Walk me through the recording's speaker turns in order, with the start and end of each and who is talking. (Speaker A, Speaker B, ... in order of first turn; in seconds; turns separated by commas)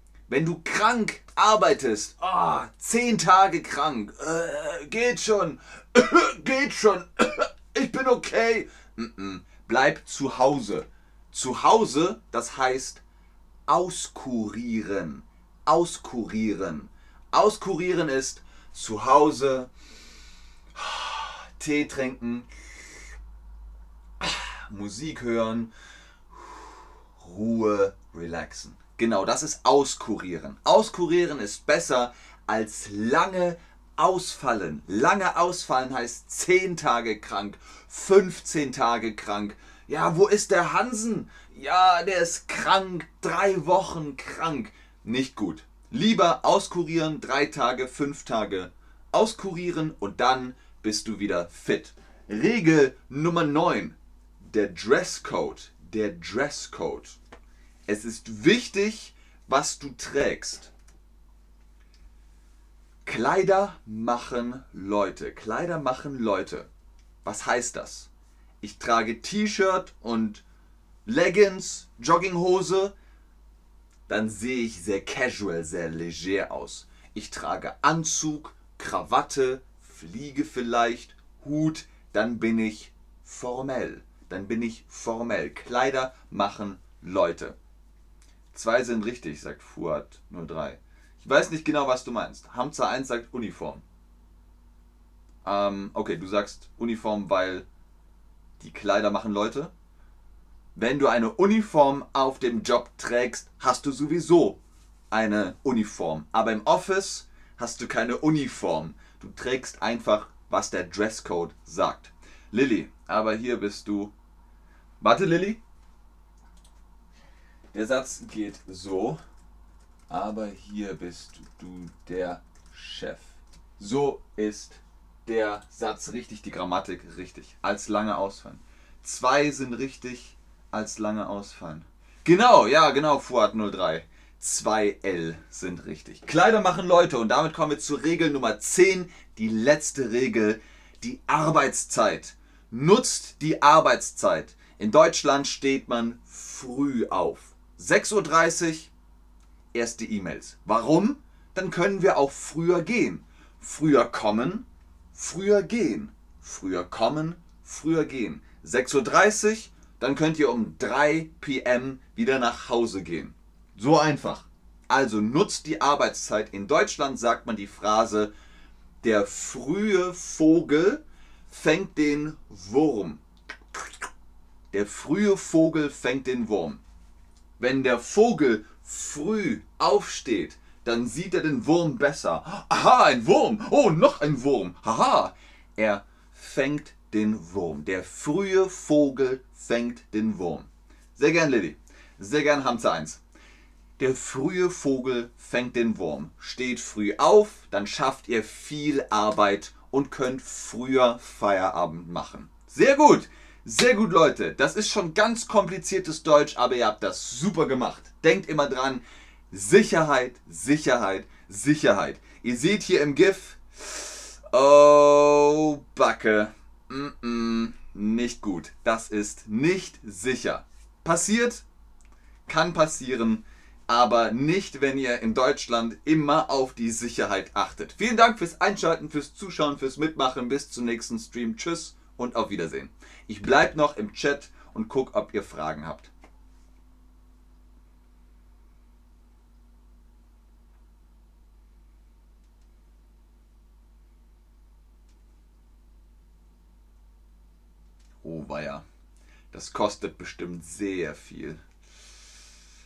Speaker A: 0.3-13.0, Speaker A: 13.7-19.7, Speaker A: 20.8-22.5, Speaker A: 24.2-25.7, Speaker A: 26.3-57.2, Speaker A: 57.9-60.7, Speaker A: 63.0-66.7, Speaker A: 67.2-68.1, Speaker A: 68.6-70.4, Speaker A: 71.1-73.0, Speaker A: 74.1-87.6, Speaker A: 88.5-93.8, Speaker A: 95.4-97.7, Speaker A: 98.6-99.7, Speaker A: 100.8-104.6, Speaker A: 105.1-114.1, Speaker A: 115.0-115.6, Speaker A: 117.7-119.2, Speaker A: 120.1-148.9, Speaker A: 149.7-168.3, Speaker A: 169.0-173.2, Speaker A: 174.7-176.8, Speaker A: 177.6-193.2, Speaker A: 194.0-221.7, Speaker A: 222.5-236.1, Speaker A: 248.2-248.8, Speaker A: 249.5-251.6